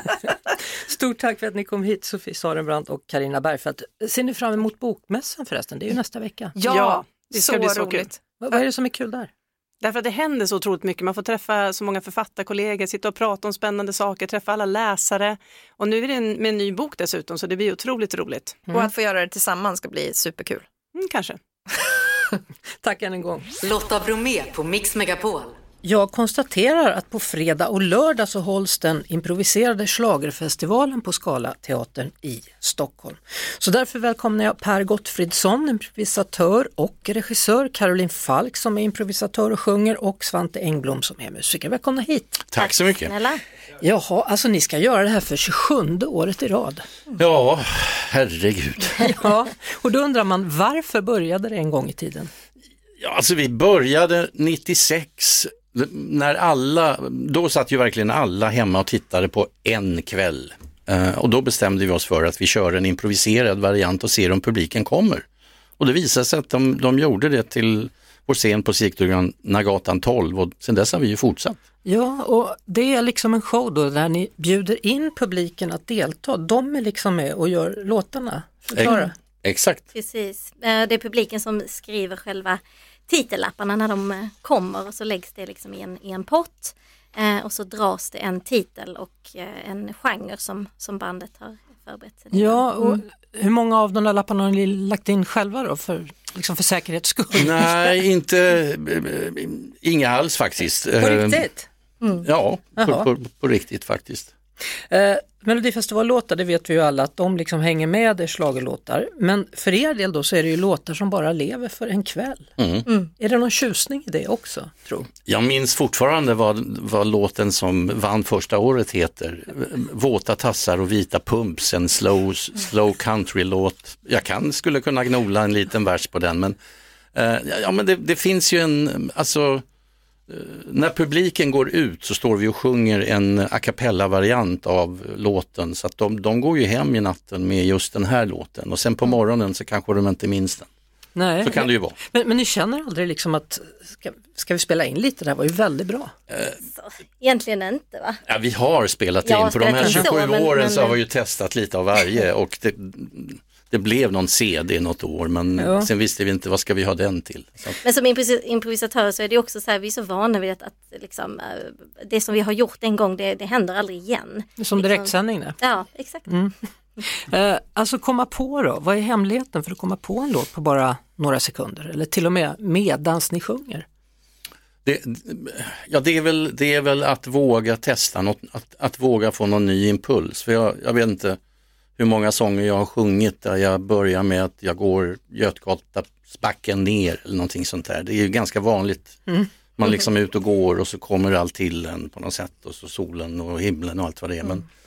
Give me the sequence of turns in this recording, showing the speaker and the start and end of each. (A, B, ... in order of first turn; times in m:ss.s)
0:00.9-0:06.6 A
0:06.6-0:08.2 B
0:06.7-0:08.1 C
0:08.4-0:09.3 A
0:09.8-0:18.6 C
0:18.7-0:20.7 B
0:21.0-0:21.4 C
0:22.8-0:23.5 A
0:23.6-0:25.6 D
0:25.8-0:42.4 A
0:42.5-0:43.1 E
0:42.6-0:43.4 F
0:43.8-0:46.8 A
0:47.2-0:49.1 E
0:49.1-0:52.3 A
0:53.0-1:05.2 E
1:05.8-1:11.6 E
1:11.8-1:19.2 A
1:18.7-1:19.8 E
1:19.9-1:33.0 F
1:32.3-1:37.9 A
1:37.3-1:41.5 E
1:41.0-1:41.7 A
1:42.0-1:42.3 F
1:42.2-1:44.3 E
1:42.8-1:43.1 A
1:44.9-1:52.5 A
1:52.6-1:52.9 E
1:53.2-1:55.1 A
1:55.3-2:06.6 E
2:07.1-2:09.6 E
2:10.3-2:20.7 E
2:21.2-2:26.1 A
2:21.4-2:22.0 E
2:26.7-2:28.2 F
2:28.3-2:37.8 E
2:29.2-2:31.0 F
2:35.6-2:35.9 A
2:37.8-2:46.3 F
2:44.6-2:45.6 A
2:46.3-2:46.5 A
2:47.1-2:53.9 A
2:54.8-3:01.4 E
3:02.0-3:09.2 E
3:09.8-3:14.6 E